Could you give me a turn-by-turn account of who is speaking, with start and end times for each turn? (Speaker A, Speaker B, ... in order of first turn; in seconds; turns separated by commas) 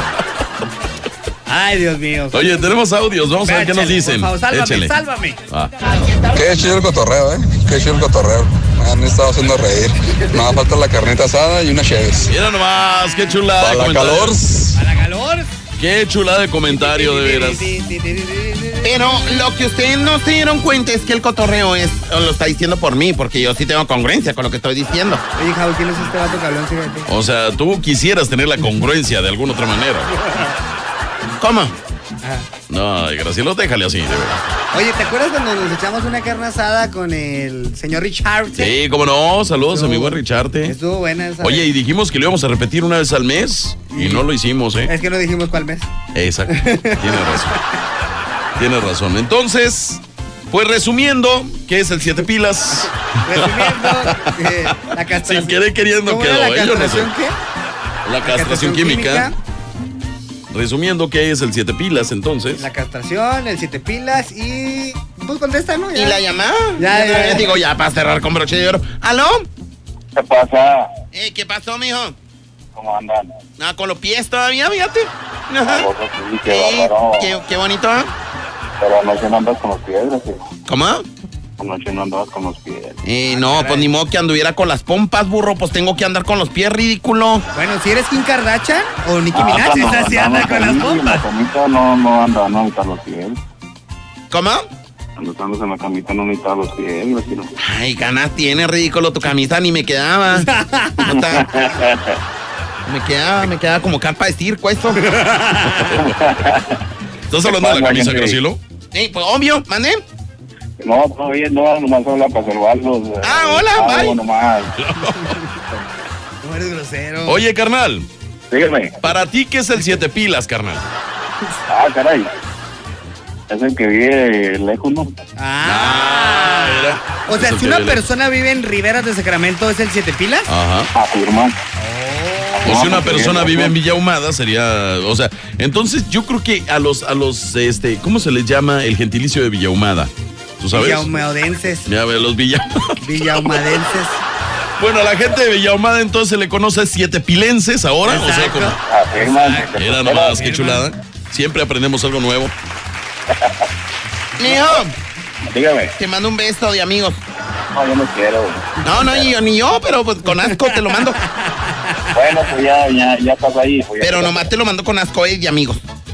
Speaker A: 1.5-2.7, Speaker B: 2.3-4.9, Speaker A: 3.4-5.4, Speaker B: 5.5-5.8, Speaker C: 5.9-6.5, Speaker D: 6.3-12.3, Speaker B: 12.3-14.8, Speaker A: 13.0-13.4, Speaker D: 13.6-14.5, Speaker A: 14.7-15.5, Speaker B: 15.8-17.7, Speaker A: 16.7-19.5, Speaker C: 18.8-25.2, Speaker A: 25.4-27.1, Speaker B: 27.1-30.1, Speaker A: 30.1-30.6, Speaker C: 31.4-31.7, Speaker A: 32.2-32.5, Speaker B: 32.7-34.5, Speaker A: 34.7-38.7, Speaker B: 38.6-40.8, Speaker A: 39.7-41.7, Speaker B: 41.4-44.9, Speaker A: 43.9-44.3, Speaker A: 44.8-45.9, Speaker B: 46.1-47.5, Speaker A: 46.5-47.6, Speaker B: 48.5-57.1, Speaker A: 52.8-57.4, Speaker B: 58.0-59.3, Speaker A: 58.2-59.3, Speaker B: 60.5-62.6, Speaker A: 62.5-66.2, Speaker C: 65.9-69.5, Speaker A: 66.8-67.6, Speaker E: 70.1-70.9, Speaker C: 71.1-72.2, Speaker E: 72.7-73.4, Speaker C: 73.6-75.9, Speaker E: 75.6-77.3, Speaker C: 76.5-78.1, Speaker E: 78.8-80.4, Speaker C: 80.7-81.0, Speaker E: 81.6-83.0, Speaker C: 83.0-87.5, Speaker A: 83.3-83.9, Speaker A: 87.5-91.2, Speaker E: 89.3-93.4, Speaker C: 89.5-90.0, Speaker C: 94.3-94.6, Speaker E: 95.2-97.5, Speaker C: 97.6-101.5, Speaker A: 100.3-101.2, Speaker E: 101.1-102.2, Speaker C: 102.8-105.1, Speaker A: 105.0-106.0, Speaker E: 105.9-106.7, Speaker B: 107.3-108.6, Speaker E: 107.4-108.4, Speaker C: 108.9-110.0, Speaker E: 110.8-114.8, Speaker C: 113.2-114.2, Speaker B: 114.8-115.4, Speaker A: 115.0-115.5, Speaker A: 116.4-117.4, Speaker B: 117.2-118.1, Speaker E: 118.5-119.0, Speaker B: 119.0-120.8, Speaker E: 121.7-122.3, Speaker E: 123.5-125.1, Speaker A: 125.4-130.5, Speaker B: 125.6-128.0, Speaker B: 130.5-130.9, Speaker E: 130.9-131.6, Speaker A: 131.8-133.2, Speaker E: 132.6-133.7, Speaker B: 132.6-141.2, Speaker A: 140.7-141.9, Speaker B: 141.8-143.8, Speaker A: 143.0-144.2, Speaker B: 144.8-148.8, Speaker A: 148.0-150.8, Speaker E: 148.8-150.5, Speaker B: 149.7-152.5, Speaker C: 154.4-154.9, Speaker E: 154.4-154.8, Speaker E: 155.5-155.9, Speaker C: 156.0-157.2, Speaker E: 157.7-159.2, Speaker C: 158.8-161.2, Speaker A: 160.4-162.1, Speaker E: 162.1-164.5, Speaker C: 164.0-165.8